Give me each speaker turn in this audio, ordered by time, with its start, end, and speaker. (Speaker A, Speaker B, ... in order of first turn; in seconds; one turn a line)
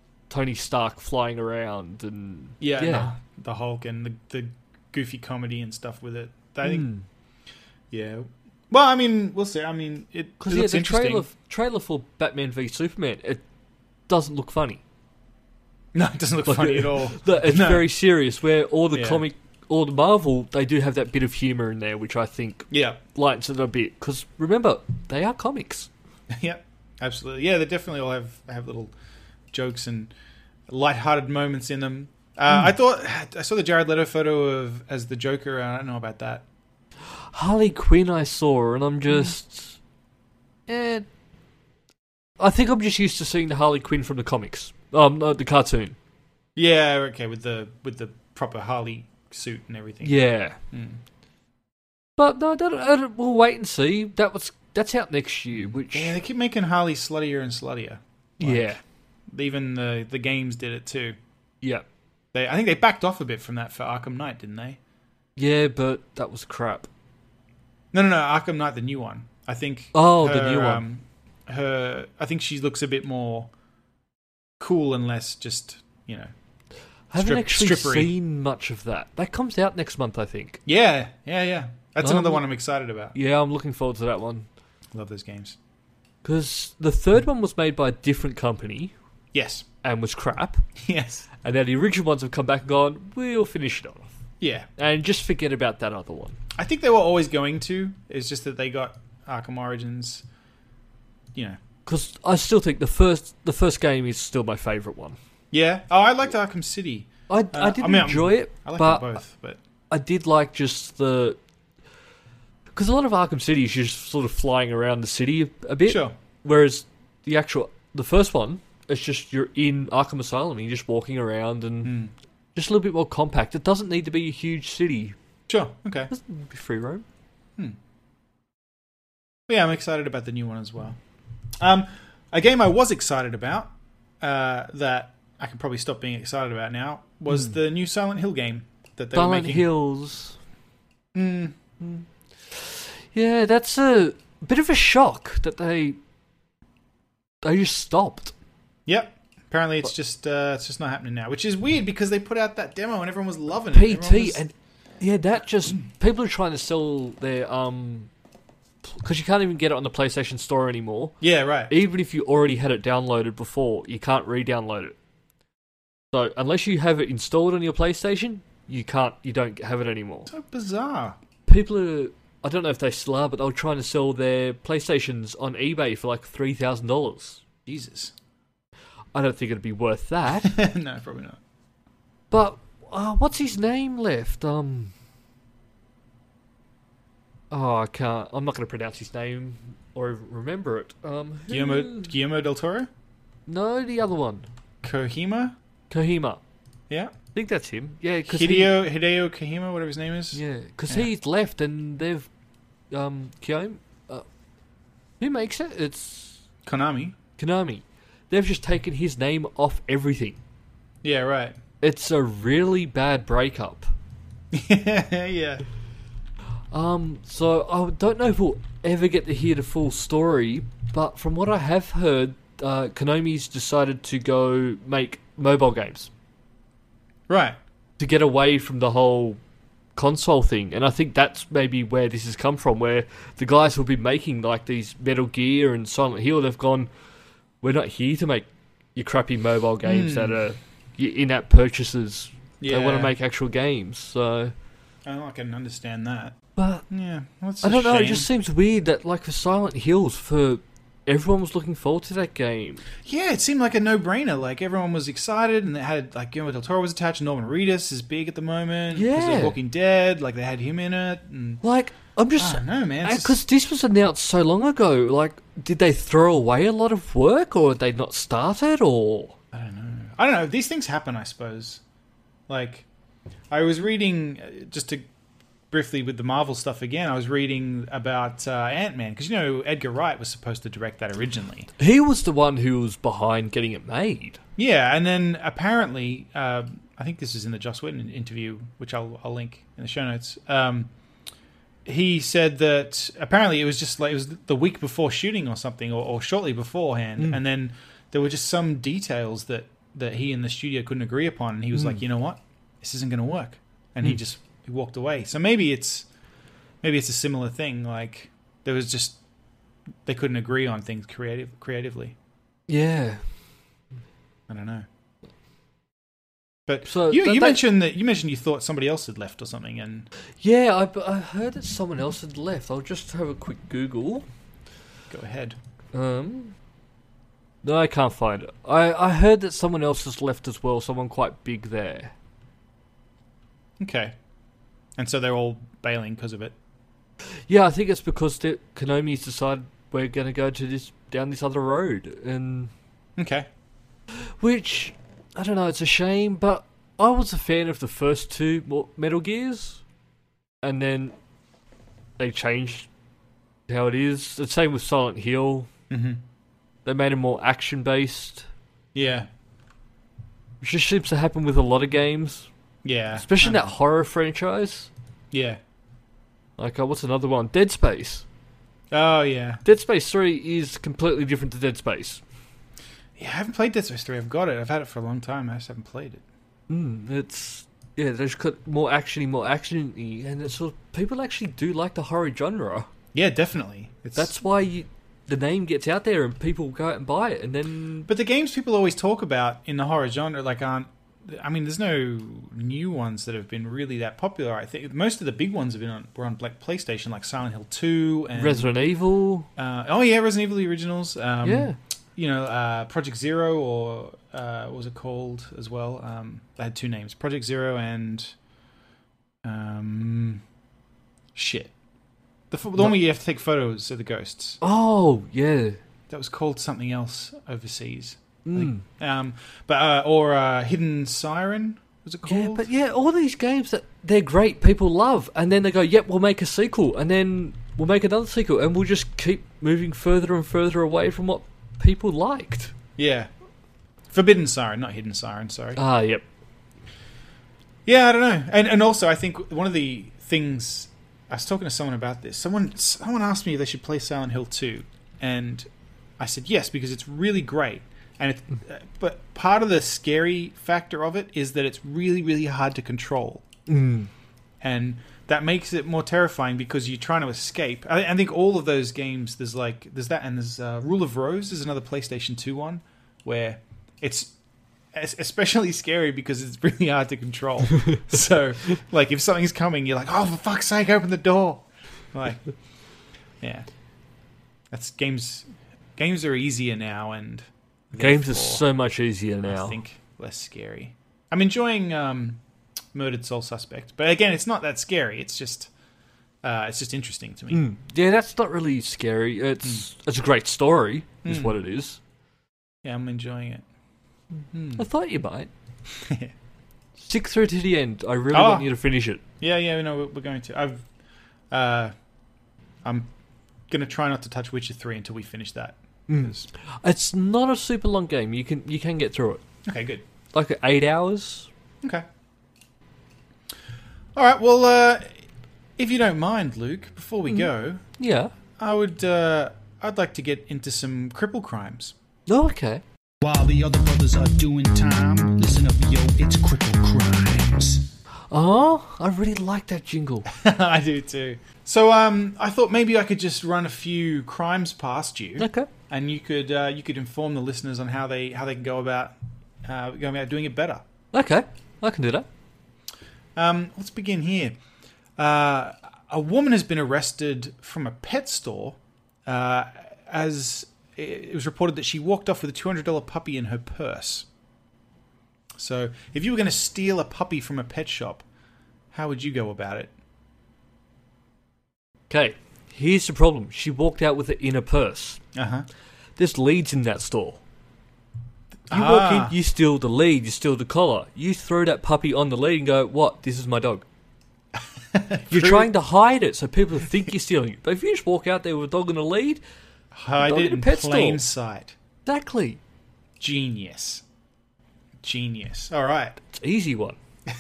Speaker A: 0.3-3.1
Speaker B: 2.6-6.9
Speaker A: 6.6-7.0
Speaker B: 7.9-11.3
Speaker A: 10.4-13.4
Speaker A: 14.1-14.8
Speaker B: 15.9-17.9
Speaker A: 16.5-25.9
Speaker B: 18.9-19.2
Speaker B: 22.7-23.0
Speaker B: 26.3-28.9
Speaker B: 29.5-30.1
Speaker B: 30.7-36.5
Speaker A: 37.3-39.8
Speaker A: 40.7-41.1
Speaker A: 42.4-46.0
Speaker B: 46.6-50.2
Speaker A: 50.0-50.6
Speaker B: 50.7-51.0
Speaker A: 52.2-56.2
Speaker B: 55.5-58.8
Speaker A: 58.4-58.8
Speaker B: 59.3-61.2
Speaker B: 62.3-64.8
Speaker A: 65.4-66.9
Speaker B: 67.9-73.5
Speaker A: 69.9-70.8
Speaker B: 74.6-76.3
Speaker A: 77.1-80.6
Speaker B: 77.2-78.1
Speaker B: 80.7-83.1
Speaker A: 82.0-82.4
Speaker A: 83.1-84.5
Speaker B: 84.9-85.6
Speaker A: 86.2-88.9
Speaker B: 89.3-89.7
Speaker A: 89.8-90.7
Speaker B: 90.8-91.3
Speaker A: 91.4-94.1
Speaker B: 94.4-94.7
Speaker A: 94.8-96.4
Speaker B: 96.6-100.2
Speaker A: 101.9-105.2
Speaker B: 105.5-109.6
Speaker A: 107.3-109.2
Speaker A: 109.9-111.4
Speaker A: 112.8-121.9
Speaker B: 115.9-116.1
Speaker B: 121.8-122.1
Speaker A: 122.5-125.2
Speaker B: 125.5-126.1
Speaker A: 126.1-127.0
Speaker B: 129.5-131.0
Speaker B: 131.6-139.7
Speaker A: 139.1-140.4
Speaker B: 141.2-141.5
Speaker A: 141.8-146.0
Speaker A: 147.4-148.3
Speaker B: 148.9-154.4
Speaker A: 153.7-158.1
Speaker A: 158.8-164.9
Speaker B: 161.2-161.7
Speaker A: 166.1-170.3
Speaker B: 170.3-171.2
Speaker A: 171.5-177.4
Speaker B: 177.7-178.1
Speaker A: 179.1-180.6
Speaker B: 180.4-181.4
Speaker A: 182.3-184.9
Speaker A: 187.5-192.1
Speaker B: 191.5-192.9
Speaker A: 193.5-194.5
Speaker B: 194.8-195.6
Speaker A: 195.9-196.4
Speaker A: 197.3-198.7
Speaker B: 198.3-201.1
Speaker A: 200.3-202.3
Speaker A: 202.9-204.2
Speaker A: 205.2-206.4
Speaker B: 206.7-207.2
Speaker A: 207.4-210.4
Speaker B: 211.0-211.6
Speaker A: 211.8-213.9
Speaker B: 214.5-215.6
Speaker A: 216.7-226.1
Speaker B: 227.3-227.6
Speaker A: 228.0-229.4
Speaker A: 230.0-236.9
Speaker A: 237.6-244.5
Speaker B: 239.8-240.4
Speaker B: 242.6-243.1
Speaker B: 245.1-246.3
Speaker A: 246.6-246.9
Speaker B: 246.9-248.3
Speaker A: 247.6-252.8
Speaker B: 253.0-261.6
Speaker A: 258.9-259.6
Speaker A: 261.6-269.4
Speaker B: 262.4-263.4
Speaker B: 269.5-271.8
Speaker B: 272.5-272.9
Speaker B: 273.5-275.1
Speaker B: 275.7-281.7
Speaker A: 281.8-284.4
Speaker B: 284.6-290.9
Speaker B: 291.9-306.1
Speaker A: 301.7-302.0
Speaker B: 306.8-309.2
Speaker B: 310.1-312.1
Speaker A: 312.7-313.2
Speaker B: 314.5-314.9
Speaker B: 316.7-320.1
Speaker A: 316.9-317.6
Speaker A: 320.4-324.3
Speaker B: 325.1-325.6
Speaker A: 325.9-326.6
Speaker A: 327.6-332.1
Speaker B: 333.8-334.1
Speaker B: 335.0-336.5
Speaker A: 337.5-342.7
Speaker B: 343.2-343.5
Speaker A: 344.4-349.8
Speaker A: 350.6-351.1
Speaker A: 352.2-352.9
Speaker A: 353.7-355.7
Speaker B: 355.9-356.2
Speaker A: 356.9-358.5
Speaker B: 358.9-359.3
Speaker A: 360.6-362.5
Speaker B: 362.8-363.6
Speaker A: 363.2-364.9
Speaker B: 365.3-365.6
Speaker A: 366.6-368.2
Speaker B: 368.9-369.6
Speaker A: 369.6-372.2
Speaker B: 373.2-376.2
Speaker A: 376.7-382.9
Speaker B: 383.1-384.3
Speaker A: 384.2-388.1
Speaker B: 388.1-398.7
Speaker A: 398.4-399.5
Speaker B: 399.6-408.3
Speaker A: 401.4-401.8
Speaker B: 409.4-410.4
Speaker B: 411.4-411.7
Speaker B: 412.5-414.6
Speaker A: 414.6-415.8
Speaker B: 416.1-422.7
Speaker A: 418.4-418.8
Speaker A: 422.3-432.7
Speaker B: 433.0-433.3
Speaker B: 434.1-435.8
Speaker A: 435.8-436.2
Speaker B: 437.9-445.7
Speaker B: 446.2-453.4
Speaker A: 453.7-454.1
Speaker B: 454.6-464.3
Speaker B: 464.9-472.4
Speaker B: 474.7-478.6
Speaker A: 478.0-479.8
Speaker B: 479.5-482.4
Speaker B: 482.9-485.7
Speaker B: 486.4-487.6
Speaker A: 487.5-492.0
Speaker B: 491.2-491.6
Speaker B: 492.8-493.6
Speaker B: 494.5-494.9
Speaker A: 494.8-495.5
Speaker B: 496.0-496.3
Speaker A: 497.0-499.2
Speaker B: 498.3-498.7
Speaker B: 499.4-500.8
Speaker B: 501.5-501.9
Speaker B: 502.8-503.1
Speaker B: 503.7-506.5
Speaker A: 506.1-509.4
Speaker B: 509.7-510.0
Speaker A: 510.3-511.5
Speaker B: 514.2-515.2
Speaker B: 515.8-517.8
Speaker A: 517.3-518.3
Speaker B: 518.6-521.9
Speaker A: 522.3-522.8
Speaker C: 523.2-527.9
Speaker A: 528.3-530.3
Speaker B: 530.3-540.8
Speaker A: 535.4-535.7
Speaker A: 541.1-542.3
Speaker B: 543.4-544.6
Speaker B: 545.2-554.3
Speaker B: 555.6-558.2
Speaker B: 558.9-559.9
Speaker A: 562.1-565.2
Speaker B: 565.4-565.7
Speaker A: 566.2-567.4
Speaker B: 568.7-569.4
Speaker A: 568.7-573.9
Speaker B: 574.9-575.7
Speaker A: 575.3-579.4
Speaker B: 579.9-581.8
Speaker A: 580.2-581.2
Speaker A: 582.1-582.6
Speaker B: 583.2-584.0
Speaker B: 585.0-586.2
Speaker A: 586.3-587.0